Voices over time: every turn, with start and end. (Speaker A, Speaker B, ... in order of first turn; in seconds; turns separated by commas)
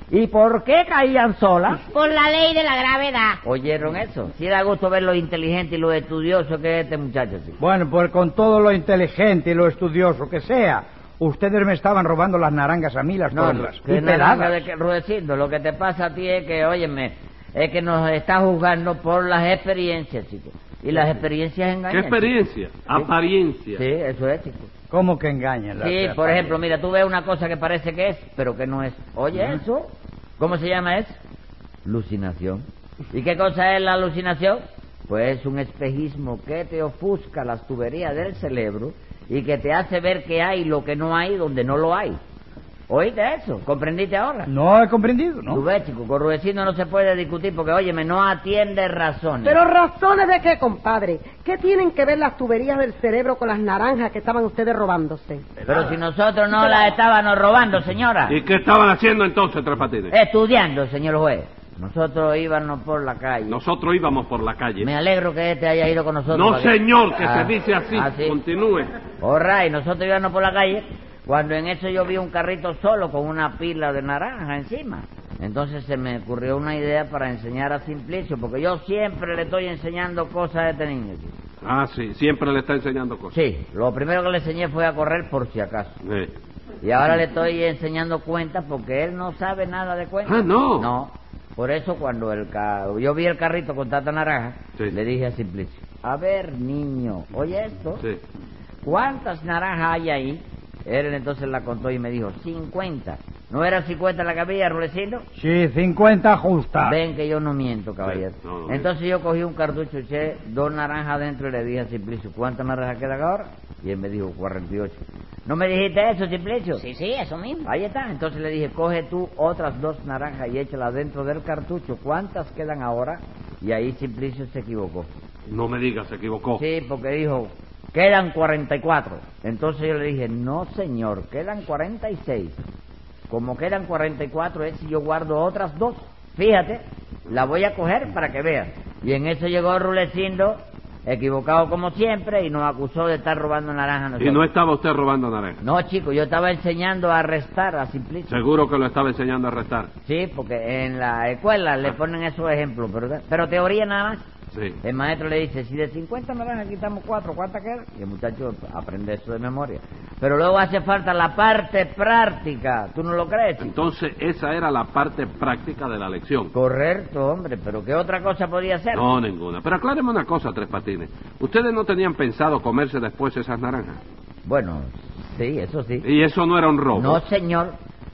Speaker A: 0.1-1.8, Speaker B: 1.8-3.4, Speaker A: 3.4-7.5, Speaker C: 7.6-14.7, Speaker A: 13.3-22.3, Speaker D: 21.9-23.8, Speaker A: 23.7-24.7, Speaker C: 24.9-26.5, Speaker A: 25.8-31.2, Speaker A: 31.8-42.2, Speaker A: 42.9-44.5, Speaker C: 44.5-45.6, Speaker A: 45.5-49.6, Speaker E: 49.5-55.5, Speaker A: 55.7-58.4, Speaker D: 58.3-60.1, Speaker A: 60.1-63.6, Speaker D: 63.5-64.9, Speaker A: 64.8-68.4, Speaker D: 66.3-68.9, Speaker A: 69.2-81.3, Speaker D: 81.6-83.3, Speaker A: 83.3-86.0, Speaker D: 86.0-86.3, Speaker A: 86.8-98.0, Speaker D: 90.2-90.9, Speaker A: 98.8-105.2, Speaker C: 105.3-107.0, Speaker A: 106.8-116.8, Speaker D: 108.0-108.8, Speaker B: 116.8-117.7, Speaker A: 117.6-125.1, Speaker D: 125.5-126.6, Speaker A: 126.6-132.6, Speaker A: 133.3-144.4, Speaker D: 144.2-145.6, Speaker A: 145.6-148.4, Speaker D: 148.3-149.9, Speaker A: 150.1-154.2, Speaker D: 154.5-154.8, Speaker A: 154.8-163.7, Speaker D: 163.6-166.5, Speaker A: 166.5-169.1, Speaker D: 168.9-174.0, Speaker A: 174.4-176.1, Speaker D: 176.0-177.2, Speaker A: 176.9-177.7